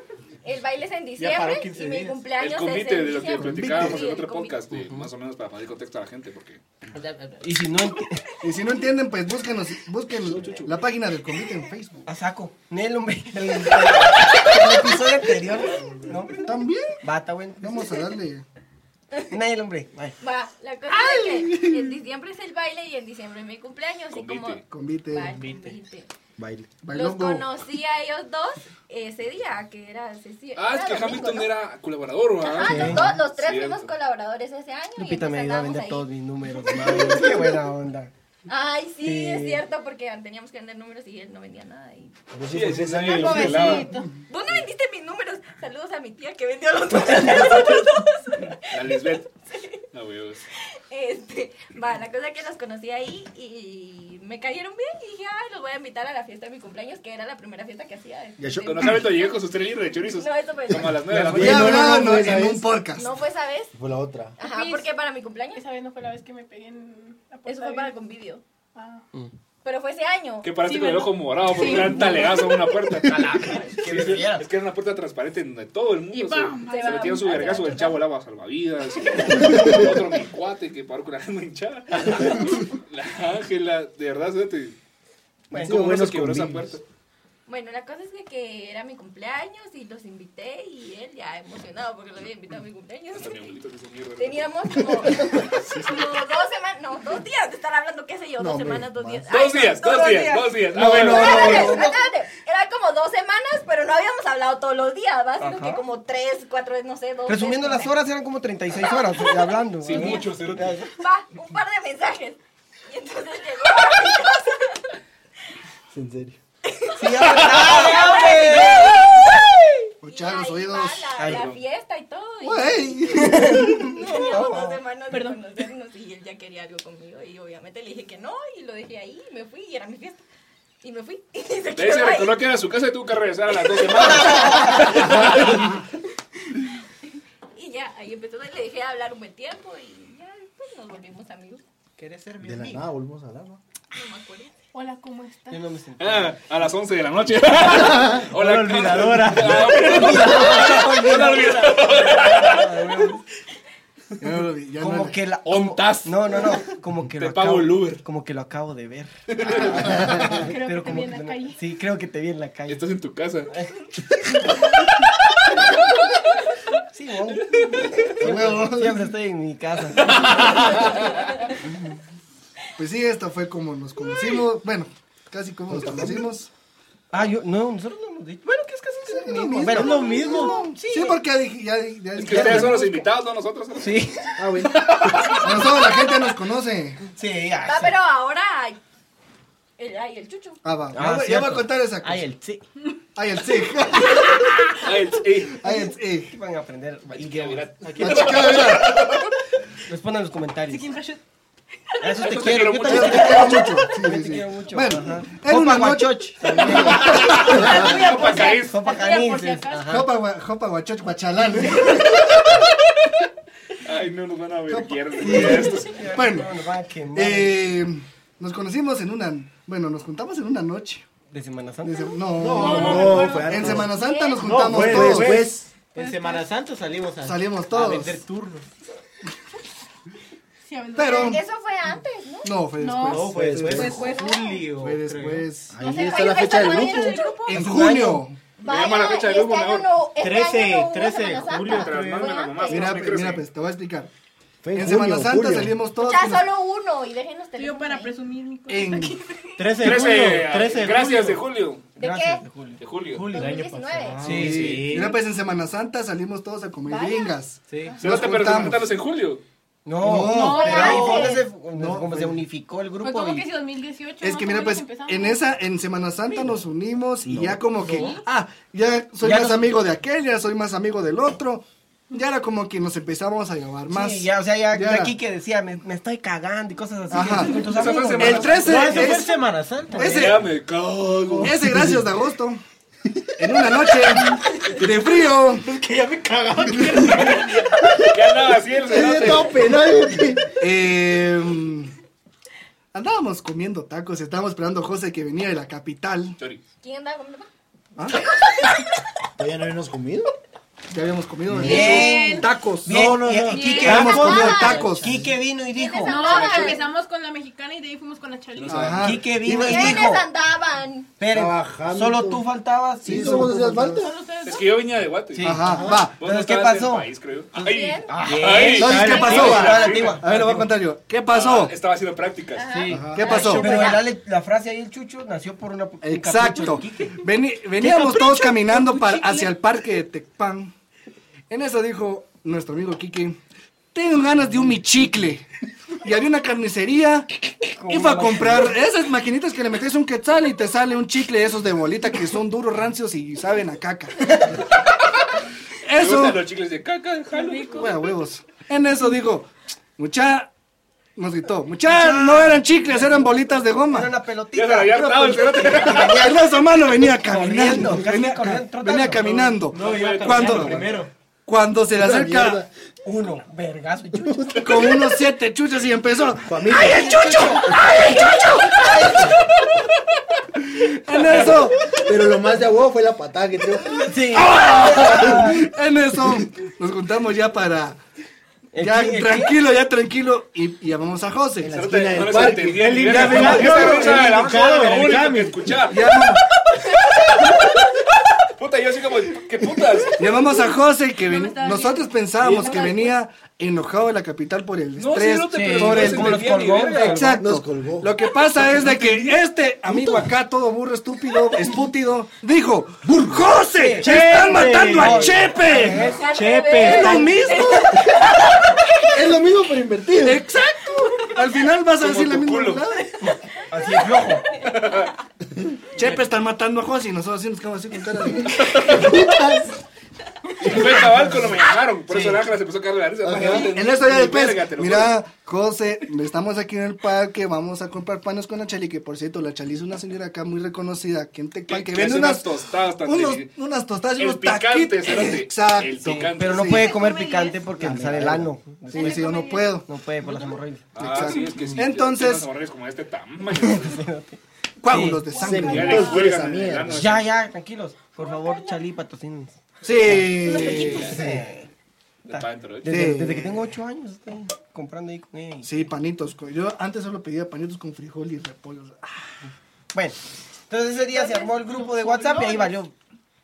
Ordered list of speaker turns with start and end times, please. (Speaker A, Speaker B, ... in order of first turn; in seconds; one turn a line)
Speaker A: 0.4-4.7
Speaker B: 1.2-2.3
Speaker C: 2.4-6.6
Speaker D: 3.4-4.0
Speaker E: 4.8-5.1
Speaker B: 6.9-7.6
Speaker E: 7.4-8.3
Speaker D: 8.4-12.1
Speaker C: 10.3-10.7
Speaker E: 12.1-17.9
Speaker A: 14.2-14.4
Speaker F: 15.8-16.2
Speaker D: 16.4-17.0
Speaker D: 17.6-18.4
Speaker E: 19.3-20.2
Speaker A: 20.2-26.1
Speaker D: 20.9-22.0
Speaker C: 24.1-24.6
Speaker D: 24.7-25.4
Speaker B: 25.2-25.8
Speaker F: 26.4-26.7
Speaker D: 26.8-27.5
Speaker A: 26.9-31.5
Speaker C: 30.6-33.9
Speaker A: 32.4-36.1
Speaker E: 32.6-33.0
Speaker F: 32.6-33.2
Speaker E: 35.0-38.1
Speaker A: 36.8-37.3
Speaker A: 38.5-42.1
Speaker E: 39.0-39.6
Speaker F: 42.3-43.8
Speaker C: 42.5-43.9
Speaker A: 43.2-49.8
Speaker G: 43.2-44.1
Speaker C: 48.5-49.3
Speaker C: 49.9-50.4
Speaker A: 50.8-61.1
Speaker F: 58.4-59.1
Speaker C: 58.6-61.9
Speaker F: 61.1-62.8
Speaker D: 61.2-63.1
Speaker A: 63.0-63.7
Speaker F: 63.7-64.4
Speaker A: 64.4-65.6
Speaker G: 64.4-68.0
Speaker A: 67.5-68.4
Speaker G: 68.8-69.0
Speaker A: 69.6-70.5
Speaker C: 70.4-84.8
Speaker G: 70.6-72.7
Speaker E: 73.0-74.5
Speaker G: 76.1-77.4
Speaker A: 76.3-78.0
Speaker F: 79.5-79.8
Speaker E: 82.0-82.4
Speaker E: 85.5-85.8
Speaker F: 85.5-86.8
Speaker C: 85.5-86.8
Speaker A: 87.5-93.6
Speaker C: 93.1-95.4
Speaker A: 94.2-108.0
Speaker F: 98.4-99.3
Speaker C: 99.3-101.8
Speaker F: 100.8-101.8
Speaker E: 101.1-101.9
Speaker D: 101.5-101.8
Speaker D: 105.4-105.8
Speaker E: 107.3-110.9
Speaker A: 108.8-110.3
Speaker C: 109.8-110.8
Speaker A: 111.0-114.8
Speaker F: 115.9-116.4
Speaker A: 116.7-130.2
Speaker E: 117.0-119.1
Speaker C: 117.2-118.0
Speaker D: 120.0-121.2
Speaker E: 121.2-121.5
Speaker C: 121.3-121.6
Speaker D: 122.4-124.0
Speaker E: 123.1-124.8
Speaker G: 125.1-125.7
Speaker A: 130.8-132.4
Speaker C: 131.8-135.8
Speaker A: 133.7-135.5
Speaker E: 133.9-134.9
Speaker A: 137.6-141.6
Speaker B: 142.0-142.9
Speaker F: 142.4-143.6
Speaker A: 143.9-144.5
Speaker G: 144.7-145.6
Speaker E: 145.5-146.4
Speaker C: 146.0-152.7
Speaker B: 147.7-151.2
Speaker E: 149.7-153.2
Speaker D: 154.2-155.2
Speaker E: 154.8-162.8
Speaker C: 155.5-156.6
Speaker C: 157.2-158.0
Speaker C: 159.3-160.1
Speaker G: 160.3-161.6
Speaker C: 162.7-163.6
Speaker E: 166.9-170.6
Speaker D: 168.2-169.1
Speaker C: 170.0-171.1
Speaker E: 171.6-172.0
Speaker D: 172.8-176.5
Speaker F: 175.7-176.3
Speaker E: 177.1-181.2
Speaker D: 179.1-183.1
Speaker B: 179.6-180.7
Speaker C: 182.2-184.1
Speaker E: 183.8-184.3
Speaker F: 184.4-185.0
Speaker C: 184.8-185.5
Speaker D: 185.4-187.1
Speaker E: 187.2-187.9
Speaker A: 187.6-188.8
Speaker A: 189.8-190.6
Speaker D: 190.6-192.3
Speaker E: 190.9-192.6
Speaker D: 193.2-194.9
Speaker C: 194.8-195.6
Speaker D: 195.4-196.3
Speaker E: 196.3-197.7
Speaker C: 197.2-199.4
Speaker B: 197.8-198.7
Speaker D: 198.0-199.1
Speaker E: 199.9-200.9
Speaker G: 200.7-201.2
Speaker G: 201.9-202.2
Speaker E: 202.0-207.3
Speaker C: 202.2-203.6
Speaker D: 202.8-208.0
Speaker C: 206.8-208.8
Speaker G: 207.2-210.0
Speaker E: 208.3-210.1
Speaker D: 209.9-212.7
Speaker C: 213.8-216.1
Speaker D: 214.7-216.5
Speaker E: 215.3-217.6
Speaker D: 217.1-221.1
Speaker E: 221.3-222.2
Speaker D: 221.8-225.4
Speaker B: 222.4-223.9
Speaker F: 222.4-223.9
Speaker G: 222.6-223.6
Speaker C: 222.6-223.2
Speaker A: 223.9-224.4
Speaker B: 224.4-228.7
Speaker F: 224.6-225.7
Speaker G: 225.9-226.5
Speaker D: 227.2-228.2
Speaker G: 230.7-231.4
Speaker D: 231.0-231.4
Speaker A: 231.1-232.5
Speaker D: 232.4-234.1
Speaker G: 232.8-234.7
Speaker B: 233.1-235.5
Speaker F: 233.3-233.9
Speaker A: 233.9-234.4
Speaker D: 234.7-235.8
Speaker F: 235.7-237.2
Speaker A: 235.8-237.5
Speaker G: 235.9-237.7
Speaker D: 237.5-238.4
Speaker E: 237.5-238.3
Speaker A: 238.6-243.1
Speaker C: 238.6-239.9
Speaker B: 240.2-242.4
Speaker C: 241.6-243.5
Speaker D: 242.7-244.1
Speaker F: 244.6-245.8
Speaker D: 244.7-246.5
Speaker A: 246.0-248.2
Speaker G: 247.6-249.2
Speaker D: 248.7-249.2
Speaker B: 249.6-251.4
Speaker C: 249.8-251.8
Speaker A: 252.0-252.4
Speaker E: 252.0-252.8
Speaker C: 252.8-253.5
Speaker B: 253.1-255.2
Speaker A: 253.3-254.3
Speaker E: 254.2-254.8
Speaker D: 254.3-258.9
Speaker C: 254.3-255.1
Speaker A: 256.9-257.4
Speaker B: 257.7-258.0
Speaker C: 258.0-259.4
Speaker E: 259.9-263.5
Speaker D: 260.0-261.1
Speaker G: 260.2-261.4
Speaker A: 260.4-261.4
Speaker F: 261.8-262.4
Speaker G: 263.0-265.4
Speaker D: 264.2-275.1
Speaker F: 267.2-267.9
Speaker G: 267.9-268.2
Speaker E: 269.2-269.8
Speaker E: 273.9-279.1
Speaker D: 277.1-279.4
Speaker C: 277.5-279.1
Speaker B: 278.6-280.4
Speaker D: 279.9-280.4
Speaker C: 279.9-281.6
Speaker F: 281.4-282.1
Speaker D: 281.4-282.6
Speaker D: 283.4-285.8
Speaker B: 285.6-287.7
Speaker D: 286.7-287.2
Speaker C: 286.9-289.6
Speaker F: 288.8-290.5
Speaker D: 290.6-291.9
Speaker D: 292.9-296.4
Speaker A: 296.8-297.5
Speaker D: 298.0-298.2
Speaker A: 298.3-298.8
Speaker F: 299.4-300.3
Speaker D: 300.9-302.9
Speaker F: 301.5-302.1
Speaker E: 301.6-306.2
Speaker G: 301.7-302.5
Speaker F: 302.9-304.0
Speaker G: 303.5-304.3
Speaker A: 303.6-304.9
Speaker D: 303.8-305.2
Speaker F: 305.0-305.3
Speaker A: 305.7-306.9
Speaker G: 306.0-308.9
Speaker C: 306.1-306.8
Speaker C: 308.6-309.2
Speaker D: 308.7-310.1
Speaker E: 309.0-310.3
Speaker A: 309.5-311.1
Speaker E: 311.2-313.7
Speaker F: 311.3-312.5
Speaker F: 313.0-314.1
Speaker D: 313.1-314.1
Speaker G: 314.0-314.7
Speaker C: 314.4-320.3
Speaker E: 315.3-317.1
Speaker D: 315.4-316.2
Speaker A: 317.6-318.2
Speaker E: 318.1-320.6
Speaker B: 318.2-320.2
Speaker D: 318.8-321.7
Speaker C: 321.3-322.7
Speaker A: 322.6-324.0
Speaker E: 322.7-327.2
Speaker F: 322.9-323.2
Speaker D: 322.9-324.0
Speaker D: 326.0-330.7
Speaker G: 328.6-329.5
Speaker D: 331.5-333.4
Speaker D: 333.9-335.5
Speaker D: 336.0-337.3
Speaker E: 337.8-338.8
Speaker D: 337.9-344.6
Speaker D: 345.8-346.4
Speaker C: 346.0-347.9
Speaker G: 347.3-348.1
Speaker D: 347.7-350.5
Speaker D: 351.2-354.1
Speaker E: 351.9-353.3
Speaker E: 353.9-359.7
Speaker C: 354.5-356.3
Speaker D: 354.9-362.6
Speaker B: 359.7-361.1
Speaker C: 359.7-361.0
Speaker F: 361.9-362.7
Speaker E: 363.1-364.7
Speaker F: 364.1-364.6
Speaker D: 364.6-369.0
Speaker F: 366.4-367.2
Speaker E: 366.7-369.4
Speaker D: 370.6-372.0
Speaker F: 371.9-375.5
Speaker E: 374.1-375.6
Speaker D: 374.3-378.0
Speaker E: 378.7-379.6
Speaker D: 378.8-381.8
Speaker F: 381.6-383.9
Speaker C: 381.7-386.1
Speaker B: 382.8-385.7
Speaker D: 383.1-384.3
Speaker D: 385.9-386.4
Speaker C: 388.5-390.2
Speaker D: 390.2-406.1
Speaker G: 390.7-393.2
Speaker C: 395.0-397.4
Speaker E: 395.5-397.4
Speaker F: 397.4-398.1
Speaker F: 403.0-403.5
Speaker E: 403.8-406.2
Speaker B: 403.8-407.3
Speaker A: 406.0-409.1
Speaker D: 406.8-408.2
Speaker F: 409.1-410.4
Speaker D: 410.2-413.1
Speaker C: 412.0-412.9
Speaker E: 413.7-414.4
Speaker C: 414.6-415.1
Speaker D: 415.9-419.1
Speaker C: 418.5-419.1
Speaker F: 418.8-419.8
Speaker C: 420.6-425.2
Speaker E: 422.1-422.4
Speaker D: 423.3-432.5
Speaker F: 423.3-423.6
Speaker C: 431.7-433.5
Speaker D: 433.0-437.0
Speaker C: 434.2-436.8
Speaker E: 436.0-440.9
Speaker G: 436.7-437.8
Speaker F: 437.8-438.5
Speaker D: 437.9-438.4
Speaker D: 438.9-439.9
Speaker G: 438.9-440.6
Speaker C: 440.9-444.1
Speaker D: 441.0-442.5
Speaker E: 443.5-445.3
Speaker D: 444.8-446.1
Speaker G: 445.2-446.3
Speaker F: 445.3-447.1
Speaker C: 445.6-447.3
Speaker E: 446.9-451.7
Speaker G: 448.2-448.8
Speaker D: 449.8-451.2
Speaker G: 450.4-451.3
Speaker C: 450.7-451.1
Speaker C: 452.3-453.1
Speaker E: 452.3-455.8
Speaker D: 452.9-453.7
Speaker D: 455.6-459.4
Speaker E: 459.9-460.2
Speaker E: 460.7-462.9
Speaker G: 461.1-462.8